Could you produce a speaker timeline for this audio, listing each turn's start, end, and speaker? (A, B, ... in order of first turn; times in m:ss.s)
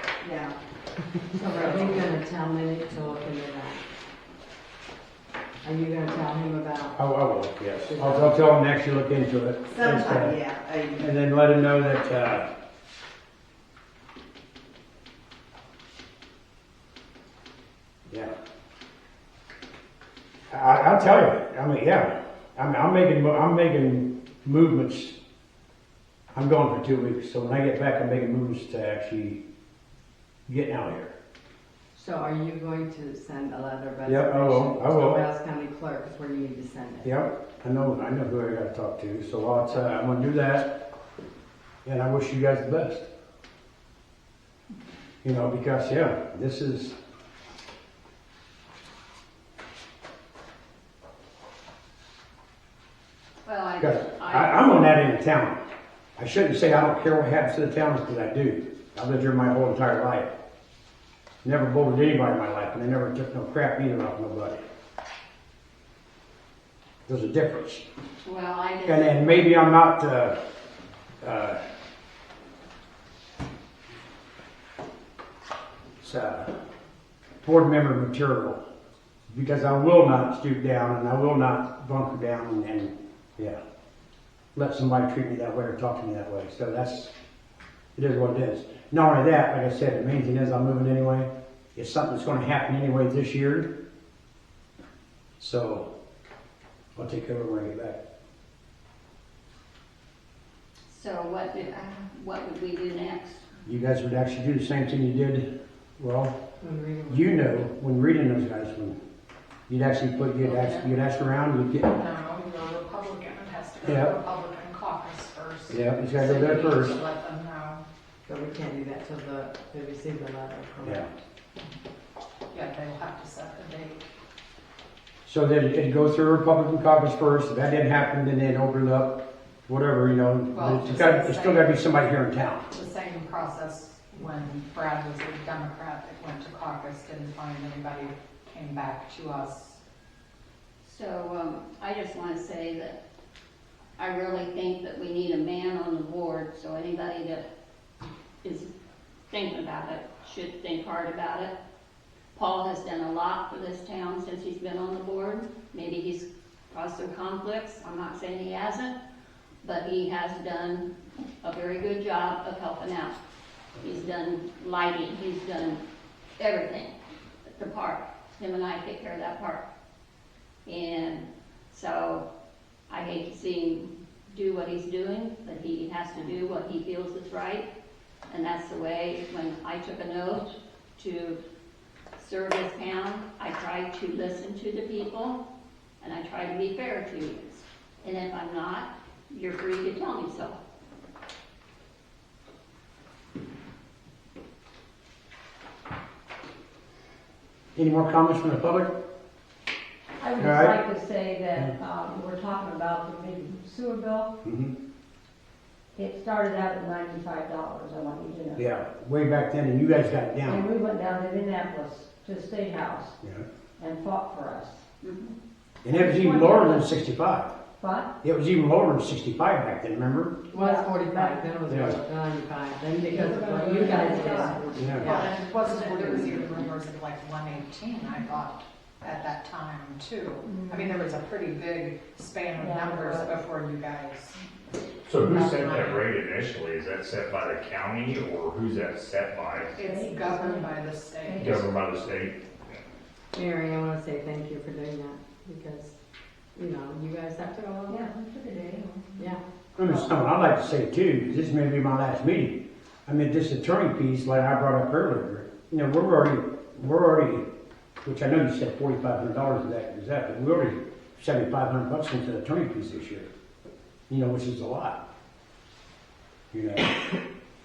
0:00.2-0:00.6 A
0:01.3-0:03.8 B
0:01.4-0:02.1 A
0:05.6-0:07.0 B
0:07.0-0:10.4 C
0:07.9-0:08.3 B
0:09.7-0:11.1 A
0:11.0-0:12.5 C
0:20.5-0:25.2 C
0:26.3-0:29.4 C
0:30.5-0:31.2 C
0:31.9-0:37.1 B
0:34.1-0:35.2 C
0:37.0-0:40.7 C
0:41.8-0:43.1 C
0:45.2-0:47.0 C
0:53.4-0:55.0 D
0:53.8-0:55.6 C
0:56.2-1:00.3 C
1:01.4-1:04.6 C
1:07.1-1:07.8 C
1:08.2-1:09.5 D
1:08.8-1:10.4 C
1:11.2-1:11.6 C
1:16.0-1:16.6 C
1:17.4-1:18.6 C
1:19.3-1:23.6 C
1:24.6-1:27.1 C
1:28.0-1:33.7 C
1:35.4-1:35.9 C
1:37.0-1:38.0 C
1:40.9-1:43.4 D
1:43.6-1:46.4 C
1:46.6-1:47.3 B
1:47.1-1:49.0 C
1:49.7-1:51.9 C
1:50.4-1:50.9 D
1:51.9-1:57.8 E
1:53.8-1:54.1 C
1:55.7-1:57.0 C
1:58.3-2:01.1 B
2:00.8-2:01.1 C
2:02.5-2:04.1 E
2:05.3-2:12.6 C
2:10.5-2:11.8 E
2:12.7-2:19.8 E
2:20.8-2:23.0 D
2:24.0-2:27.4 D
2:28.4-2:28.7 D
2:29.3-2:31.5 D
2:32.3-2:39.0 D
2:39.6-2:40.9 D
2:41.4-2:43.2 D
2:43.8-2:45.8 D
2:46.4-2:49.6 D
2:50.7-2:52.3 D
2:52.9-2:57.7 D
2:58.3-3:01.4 D
3:02.2-3:05.4 D
3:06.0-3:10.6 D
3:17.8-3:18.9 C
3:20.2-3:24.3 F
3:20.4-3:20.8 C
3:24.4-3:24.7 C
3:25.9-3:28.6 F
3:28.6-3:30.7 C
3:30.4-3:33.2 F
3:33.8-3:34.8 F
3:35.0-3:35.4 D
3:35.8-3:37.5 C
3:35.9-3:36.9 F
3:37.8-3:38.1 F
3:38.2-3:40.4 C
3:40.5-3:45.2 B
3:40.5-3:41.5 F
3:41.7-3:42.0 C
3:43.0-3:46.7 F
3:44.8-3:45.1 C
3:45.0-3:54.4 E
3:50.4-3:51.0 F
3:52.6-3:53.4 F
3:55.1-3:59.7 G
3:55.2-3:56.2 E
3:59.8-4:01.6 F
3:59.8-4:01.7 E
4:01.5-4:02.4 G
4:03.3-4:06.0 B
4:06.6-4:08.1 B
4:07.9-4:09.4 F
4:09.8-4:17.5 C
4:18.0-4:23.3 C
4:24.1-4:25.0 C
4:26.5-4:26.9 C